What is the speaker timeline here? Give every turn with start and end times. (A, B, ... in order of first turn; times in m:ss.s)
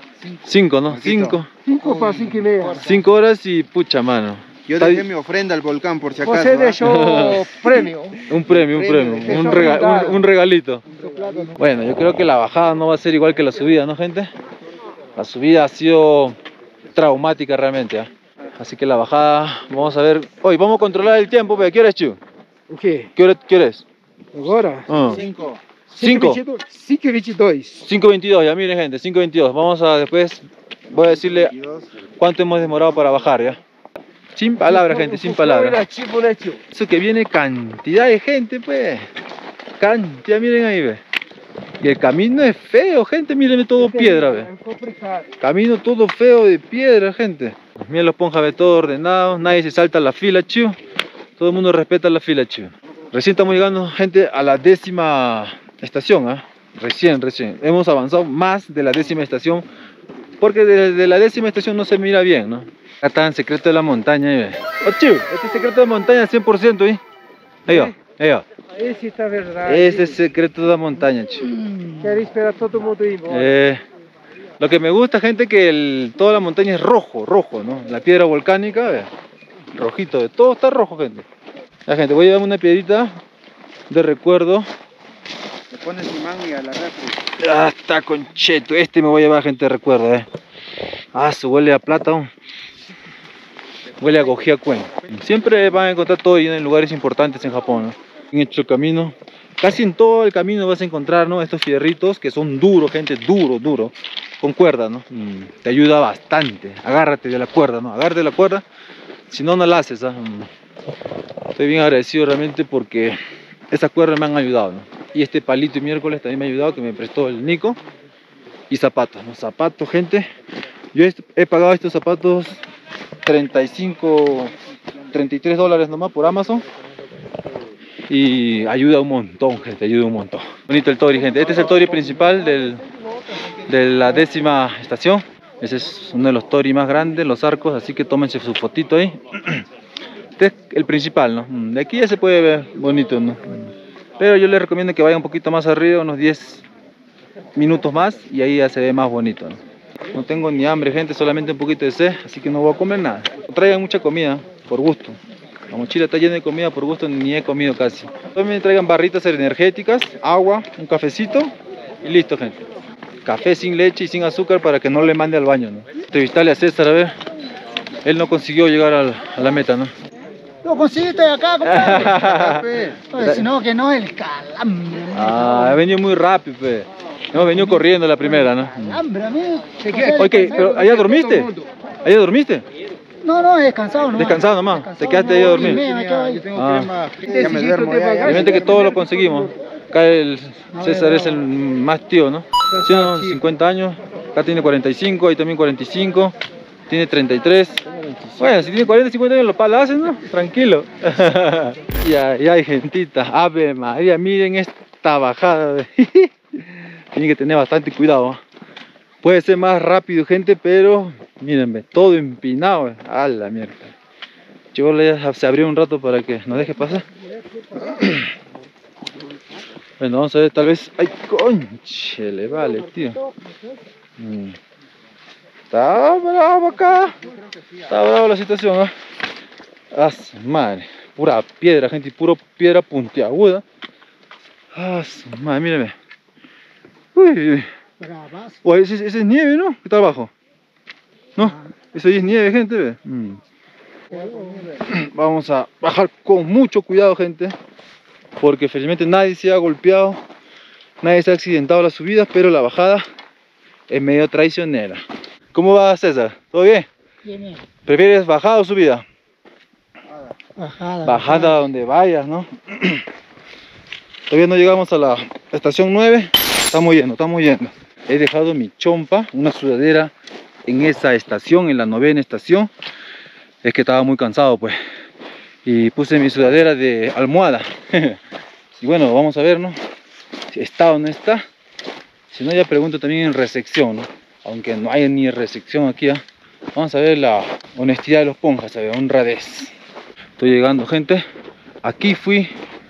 0:00.4-0:01.5 A
0:00.9-0:02.6 B
0:01.6-0:02.9 C
0:02.8-0:05.0 A
0:04.7-0:06.9 B
0:06.2-0:10.2 C
0:06.8-0:07.7 A
0:08.2-0:10.8 A
0:08.9-0:09.4 B
0:10.9-0:11.6 C
0:11.6-0:14.3 A
0:15.2-0:16.4 A
0:16.9-0:22.2 A
0:22.7-0:23.1 C
0:23.1-0:23.8 A
0:24.3-0:24.9 C
0:24.9-0:25.2 A
0:25.0-0:25.6 B
0:25.9-0:27.8 C
0:26.0-0:26.4 A
0:27.8-0:31.5 A
0:31.5-0:31.8 B
0:32.2-0:33.6 A
0:34.3-0:35.8 A
0:34.6-0:36.6 C
0:36.7-0:39.1 A
0:39.8-0:41.0 A
0:41.8-0:44.5 A
0:43.8-0:45.3 C
0:45.4-0:50.8 A
0:51.4-0:59.6 A
1:00.4-1:07.0 A
1:07.6-1:08.4 A
1:08.8-1:10.2 C
1:09.6-1:11.5 A
1:11.5-1:12.1 D
1:12.0-1:13.5 C
1:13.3-1:13.8 A
1:14.6-1:19.1 A
1:19.7-1:21.2 A
1:21.8-1:23.2 A
1:23.9-1:24.7 A
1:25.7-1:27.2 B
1:27.4-1:30.3 A
1:31.1-1:32.3 A
1:34.0-1:48.6 A
1:49.3-1:50.5 A
1:51.5-1:53.2 A
1:53.7-1:57.8 A
1:58.7-2:00.3 A
2:00.9-2:02.6 A
2:03.2-2:04.5 A
2:05.1-2:06.6 A
2:08.1-2:12.8 A
2:13.7-2:19.6 A
2:20.4-2:26.6 A
2:27.5-2:29.6 A
2:30.1-2:35.2 A
2:35.7-2:41.5 A
2:42.0-2:42.6 A
2:43.2-2:47.2 A
2:48.0-2:49.9 A
2:50.6-2:55.8 D
2:51.6-2:53.5 A
2:52.2-2:52.9 B
2:55.1-2:59.0 A
2:58.8-3:00.6 D
2:59.8-3:01.7 C
3:00.2-3:01.5 A
3:02.0-3:02.6 A
3:03.2-3:06.5 D
3:04.2-3:05.8 A
3:05.7-3:08.7 B
3:06.5-3:06.9 A
3:07.2-3:09.5 C
3:08.2-3:16.3 A
3:10.7-3:11.4 D
3:12.7-3:13.4 C
3:16.9-3:17.8 A
3:18.4-3:28.4 A
3:29.2-3:33.9 A
3:34.7-3:37.0 A
3:40.0-3:43.2 A
3:44.2-3:44.6 A
3:45.7-3:47.2 A
3:47.8-3:48.9 A
3:49.9-3:53.6 A
3:54.7-3:55.9 A
3:57.1-3:57.7 A
3:58.0-3:58.6 D
3:58.6-4:00.3 A
4:01.4-4:03.4 A
4:04.1-4:04.7 D
4:04.8-4:07.5 A
4:08.4-4:10.2 A
4:11.0-4:13.0 A
4:13.9-4:16.9 A
4:17.2-4:17.6 D
4:17.8-4:19.0 A
4:20.6-4:21.6 D
4:21.0-4:23.0 A
4:24.3-4:30.1 A
4:30.6-4:32.7 A
4:33.6-4:34.8 A
4:35.6-4:38.2 A
4:38.8-4:39.8 A
4:40.5-4:41.4 A
4:42.3-4:49.7 A
4:50.4-4:51.2 A
4:51.8-4:52.5 A